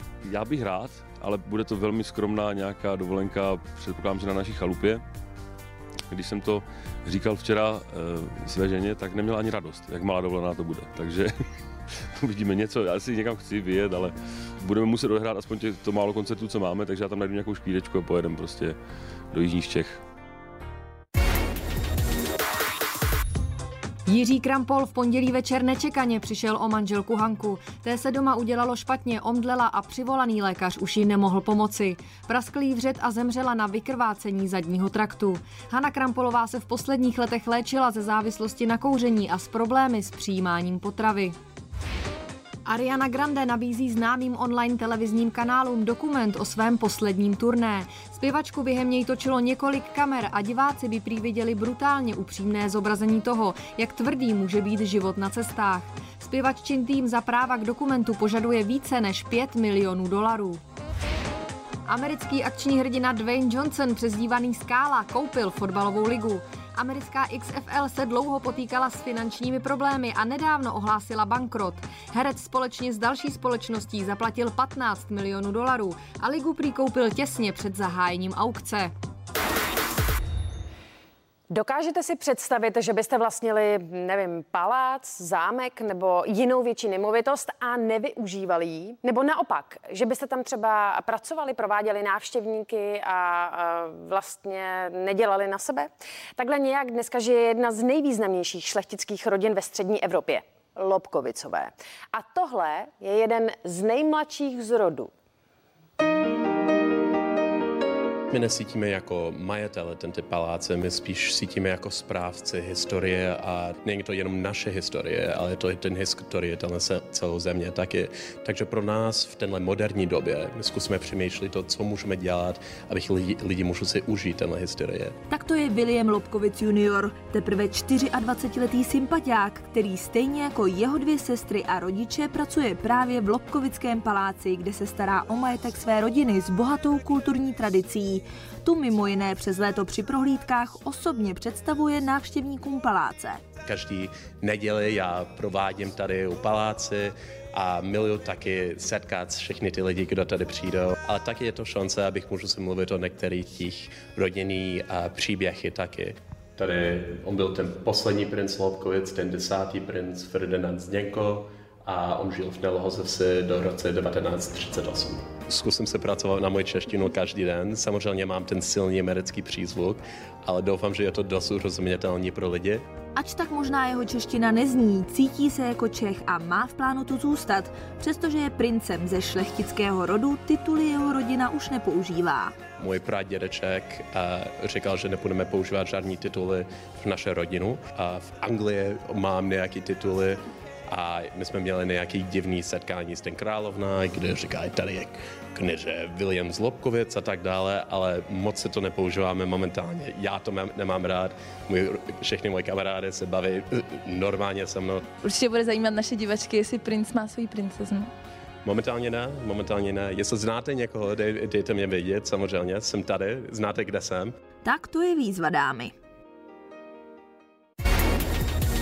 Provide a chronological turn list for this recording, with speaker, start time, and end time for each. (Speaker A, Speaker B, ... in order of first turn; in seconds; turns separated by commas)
Speaker A: 0.2-5.0, Speaker A: 6.1-11.3, Speaker A: 12.2-18.8, Speaker A: 19.3-20.0, Speaker B: 24.1-41.4, Speaker B: 42.7-60.6, Speaker B: 61.9-78.9, Speaker C: 81.5-105.1, Speaker D: 108.3-125.1, Speaker E: 125.3-143.4, Speaker D: 143.7-172.8, Speaker E: 173.2-182.5, Speaker D: 182.8-205.1, Speaker F: 205.2-208.1, Speaker D: 208.7-214.3, Speaker E: 214.6-215.9